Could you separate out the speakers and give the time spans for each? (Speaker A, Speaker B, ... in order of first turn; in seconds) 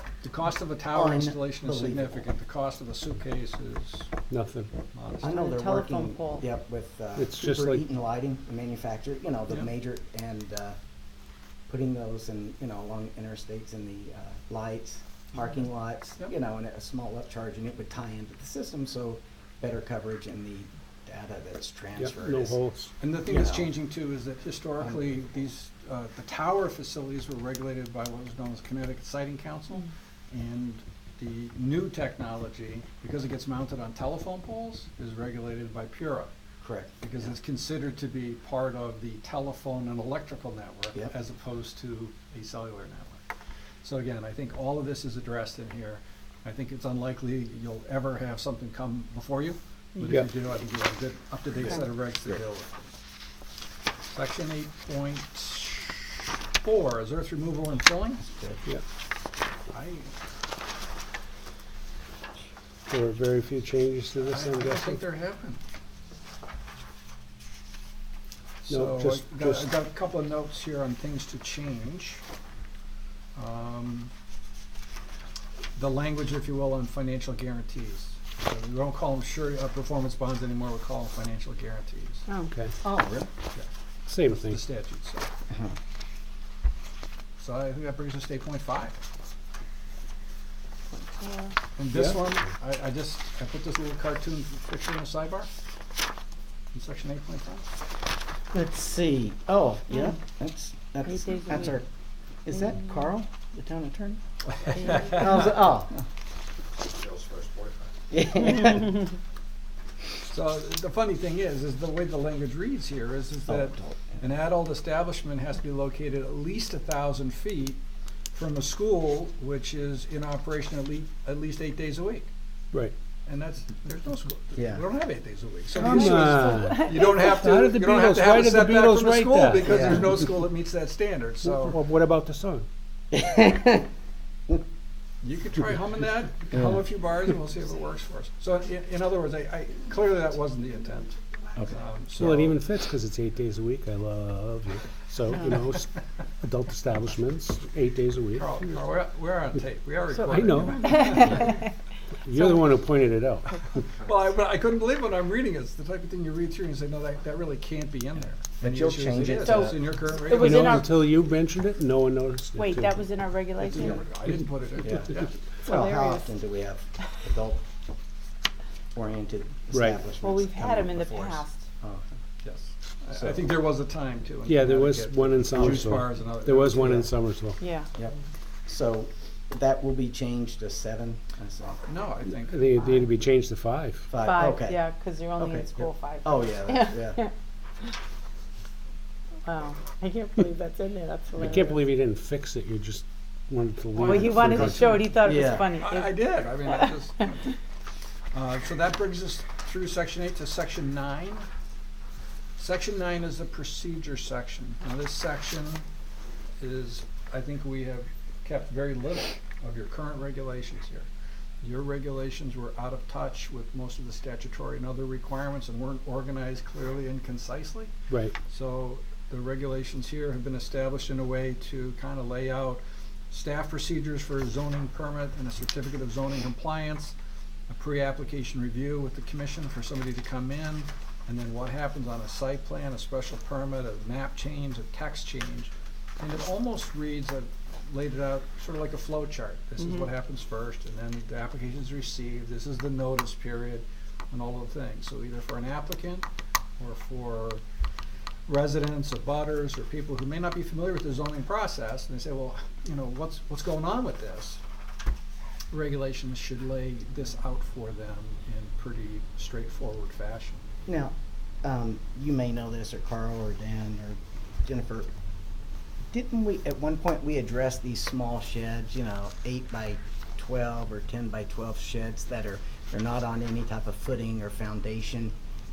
Speaker A: 0.2-4.1, 4.9-5.3, 23.0-36.3, 37.0-43.2, 43.8-52.9, 54.1-58.2, 59.7-60.1, 64.2-65.6, 68.6-72.2, 73.3-74.1, 75.8-82.2, 84.3-85.3, 87.4-89.0, 91.8-95.5, 96.7-97.7, 104.6-105.2, 106.9-107.9, 110.2-117.8, 118.3-122.3, 123.2-131.8, 135.2-141.2, 141.7-142.6, 148.3-151.6, 153.9-160.9, 163.6-165.3, 172.4-177.0, 181.9-182.8, 194.0-197.6, 198.3-201.5, 202.6-205.8, 206.6-211.1, 211.6-217.9, 218.5-227.1, 227.7-246.2, 246.8-247.6, 248.5-254.6, 255.7-260.7
Speaker B: 0.9-2.2, 5.2-10.8, 11.7-22.6, 23.2-23.7, 24.8-25.2, 36.6-37.3, 58.2-58.6, 82.8-83.3, 85.5-85.7, 98.5-101.9, 102.4-104.2, 104.8-106.0, 108.1-109.1, 113.5-114.2, 124.5-124.8, 125.8-126.3, 129.7-129.9, 133.1-133.8, 136.5-136.8, 158.6-159.9, 164.8-167.6, 168.9-172.1, 173.1-173.5, 175.5-175.9, 176.8-177.1, 178.7-181.8, 184.1-184.8, 185.4-187.2, 195.2-195.7, 260.9-265.1, 266.1-275.3
Speaker C: 4.3-4.7, 7.2-7.8, 22.0-22.9, 62.9-65.0, 68.7-69.6, 84.1-84.6, 91.9-92.2, 125.8-130.2, 131.4-132.7, 142.2-148.6, 150.3-151.5, 152.2-153.8, 160.3-163.0, 169.7-170.0, 174.4-177.6, 182.5-184.1, 191.4-195.0, 218.1-218.3
Speaker D: 5.3-6.5, 82.3-82.5, 91.2-91.5, 101.0-101.7, 104.8-105.5, 125.9-127.2, 150.7-151.6, 159.2-160.9, 162.6-164.0, 165.6-166.3, 170.2-171.6, 177.6-177.9, 184.2-187.3, 189.4-191.8, 194.0-196.9